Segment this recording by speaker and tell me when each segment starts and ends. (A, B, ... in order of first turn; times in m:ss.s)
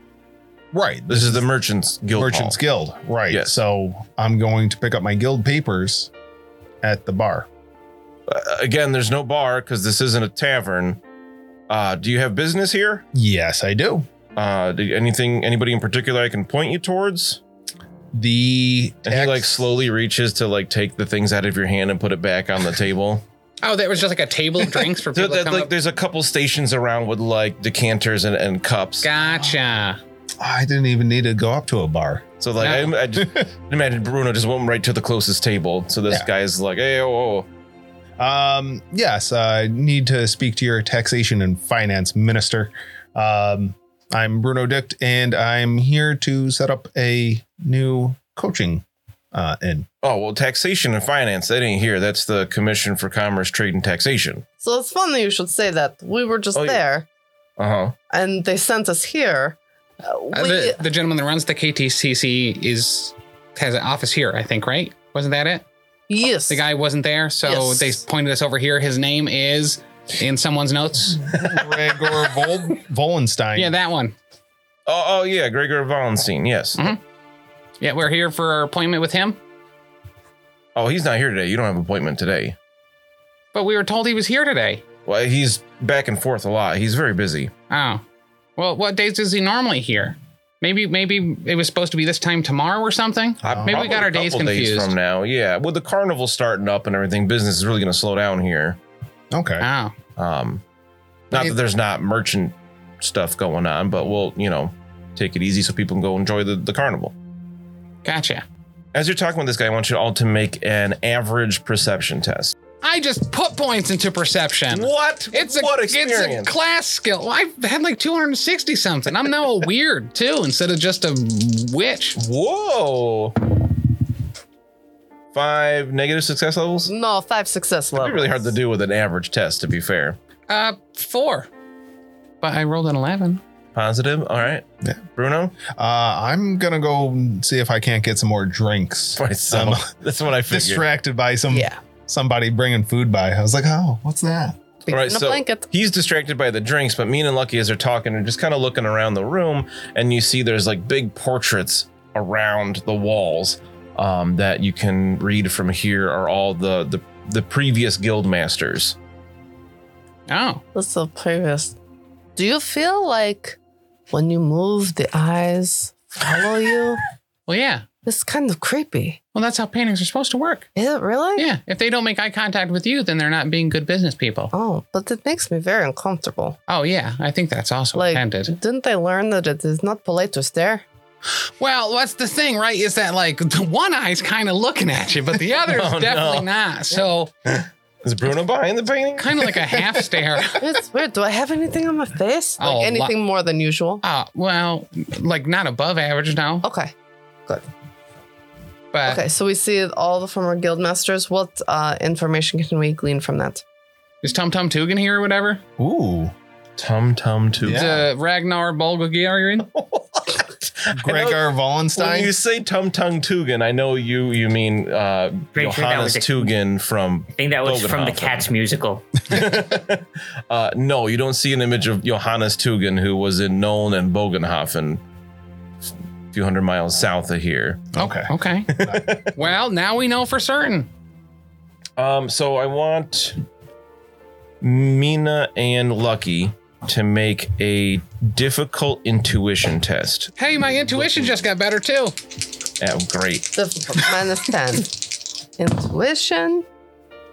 0:00.7-0:01.5 A
0:01.1-0:02.6 B
0:02.1-0:06.1 A
0:03.3-0:03.6 B
0:06.8-0:07.5 A
0:08.3-0:11.0 B
0:11.7-0:13.0 B
0:13.1-0:14.1 A
0:14.4-0:17.4 B
0:18.1-0:19.6 A
0:19.0-0:23.2 B
0:23.6-0:25.7 C
0:25.1-0:29.1 B
0:29.0-0:30.0 C
0:30.4-0:32.2 A
0:32.4-0:37.5 B
0:32.6-0:32.9 C
0:33.2-0:33.4 A
0:38.2-0:49.9 A
0:50.0-0:54.4 B
0:54.6-0:57.1 D
0:56.5-0:56.8 B
0:57.6-0:58.0 B
0:58.1-1:00.8 D
1:00.3-1:05.6 C
1:06.1-1:06.7 D
1:06.5-1:11.4 C
1:07.4-1:08.0 D
1:11.2-1:13.8 A
1:13.6-1:14.2 C
1:14.9-1:16.9 B
1:17.8-1:19.4 C
1:20.8-1:22.6 B
1:23.5-1:24.8 C
1:25.1-1:27.5 B
1:27.7-1:28.0 C
1:28.6-1:34.9 C
1:33.4-1:38.8 B
1:33.5-1:34.0 A
1:39.3-1:39.7 A
1:39.6-1:39.9 C
1:40.2-1:40.6 B
1:41.3-1:47.1 B
1:48.0-1:48.4 C
1:48.9-1:52.6 B
1:52.8-2:02.2 C
1:54.7-1:56.5 B
2:02.2-2:03.4 B
2:05.3-2:06.9 B
2:06.9-2:08.5 D
2:08.0-2:10.2 B
2:10.5-2:11.5 C
2:12.4-2:13.4 C
2:13.8-2:15.6 B
2:15.6-2:19.9 A
2:19.2-2:20.8 B
2:20.5-2:24.6 A
2:21.5-2:21.8 D
2:24.9-2:25.7 D
2:24.9-2:39.0 B
2:40.3-2:40.6 C
2:40.7-2:41.8 D
2:42.4-2:43.6 D
2:44.1-2:47.0 D
2:47.5-2:47.8 C
2:48.0-2:49.2 D
2:49.3-2:50.7 C
2:50.8-2:51.5 D
2:51.4-2:54.5 C
2:54.5-2:56.6 D
2:56.7-2:58.5 C
2:57.9-3:00.8 D
3:01.6-3:07.3 C
3:05.6-3:06.5 B
3:07.5-3:09.6 B
3:09.2-3:10.6 C
3:10.6-3:14.0 D
3:12.6-3:13.1 C
3:14.0-3:16.6 C
3:16.6-3:16.9 D
3:18.9-3:19.2 C
3:19.0-3:23.6 D
3:24.2-3:25.6 C
3:25.8-3:26.3 A
3:26.8-3:28.0 B
3:27.6-3:28.1 A
3:27.7-3:29.7 C
3:29.7-3:38.5 B
3:30.9-3:32.3 A
3:35.5-3:36.5 E
3:37.4-3:39.2 E
3:39.3-3:45.0 B
3:46.3-3:47.9 B
3:48.0-3:49.2 A
3:48.0-3:48.8 C
3:48.7-3:49.3 B
3:49.3-3:50.9 C
3:52.0-3:53.4 B
3:54.6-4:01.4 B
4:00.4-4:02.2 C
4:02.8-4:03.6 B
4:03.6-4:06.7 D